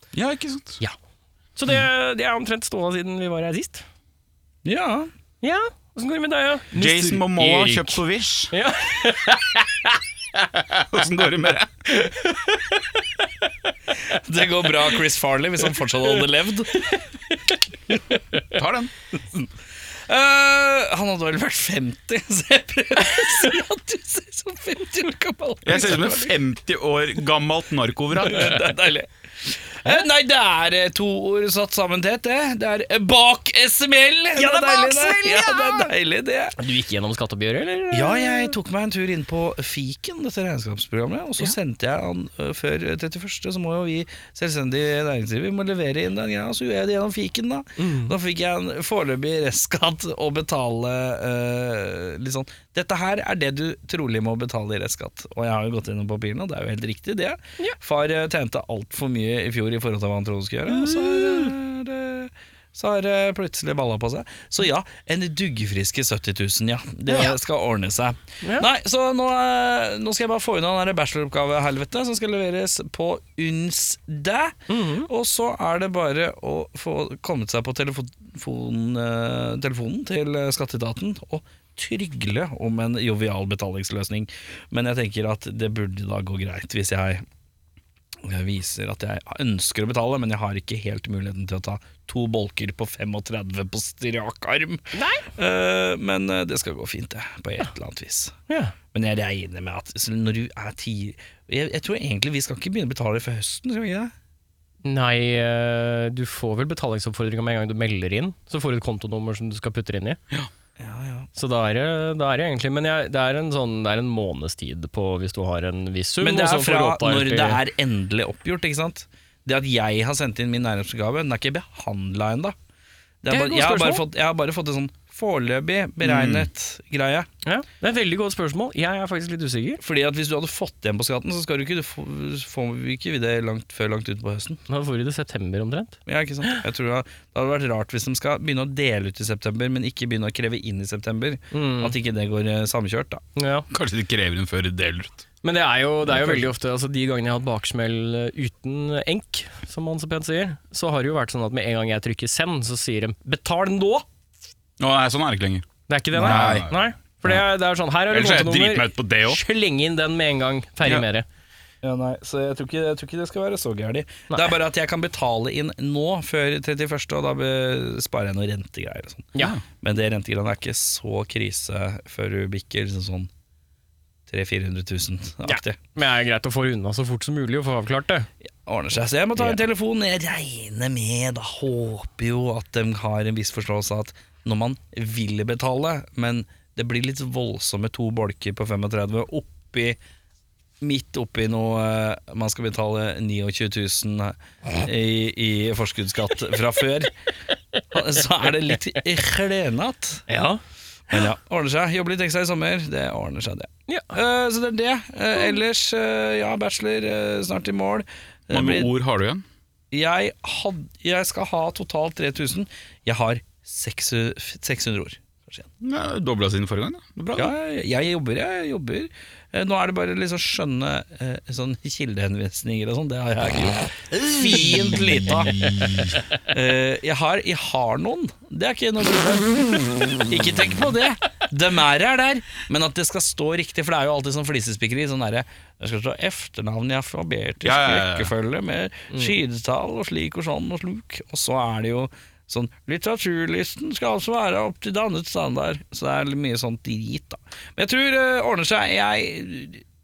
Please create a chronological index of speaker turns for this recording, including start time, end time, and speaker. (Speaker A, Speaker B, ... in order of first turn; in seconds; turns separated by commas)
Speaker A: 0.1-0.8, Speaker B: 1.6-3.9, Speaker C: 4.7-5.1, Speaker B: 5.4-8.0, Speaker A: 6.7-8.5, Speaker B: 8.5-10.0, Speaker A: 10.6-11.9, Speaker B: 12.0-12.8, Speaker C: 14.1-16.8, Speaker B: 16.7-17.6, Speaker A: 18.5-18.9, Speaker C: 20.1-26.4, Speaker A: 25.6-28.6, Speaker C: 28.2-36.6, Speaker B: 34.4-35.9, Speaker B: 36.6-38.5, Speaker C: 37.9-87.2, Speaker B: 47.8-48.1, Speaker B: 60.7-61.5, Speaker B: 68.4-68.7, Speaker B: 74.7-75.1, Speaker C: 88.2-98.3, Speaker B: 94.9-95.3, Speaker B: 98.5-98.8, Speaker C: 98.9-104.1, Speaker B: 104.8-110.2, Speaker C: 110.8-111.3, Speaker B: 111.3-117.6, Speaker C: 116.2-122.5, Speaker C: 123.2-127.3, Speaker B: 123.3-124.0, Speaker A: 126.0-126.5, Speaker B: 127.4-129.8, Speaker C: 129.8-134.6, Speaker B: 134.7-136.6, Speaker C: 136.1-143.2, Speaker B: 141.5-141.9, Speaker B: 143.4-143.7, Speaker A: 143.7-145.2, Speaker B: 145.4-154.1, Speaker A: 154.8-156.8, Speaker B: 155.9-161.3, Speaker C: 156.2-156.6, Speaker A: 158.1-159.4, Speaker C: 161.8-173.3, Speaker C: 174.3-175.8, Speaker B: 175.4-178.3, Speaker C: 178.7-190.0, Speaker C: 190.8-197.1, Speaker C: 197.9-200.3, Speaker B: 200.3-200.6, Speaker C: 201.1-208.9, Speaker A: 208.5-209.4, Speaker C: 209.9-215.7, Speaker A: 215.8-217.5, Speaker C: 217.3-226.0, Speaker A: 224.1-226.2, Speaker C: 226.5-249.8, Speaker A: 237.6-238.3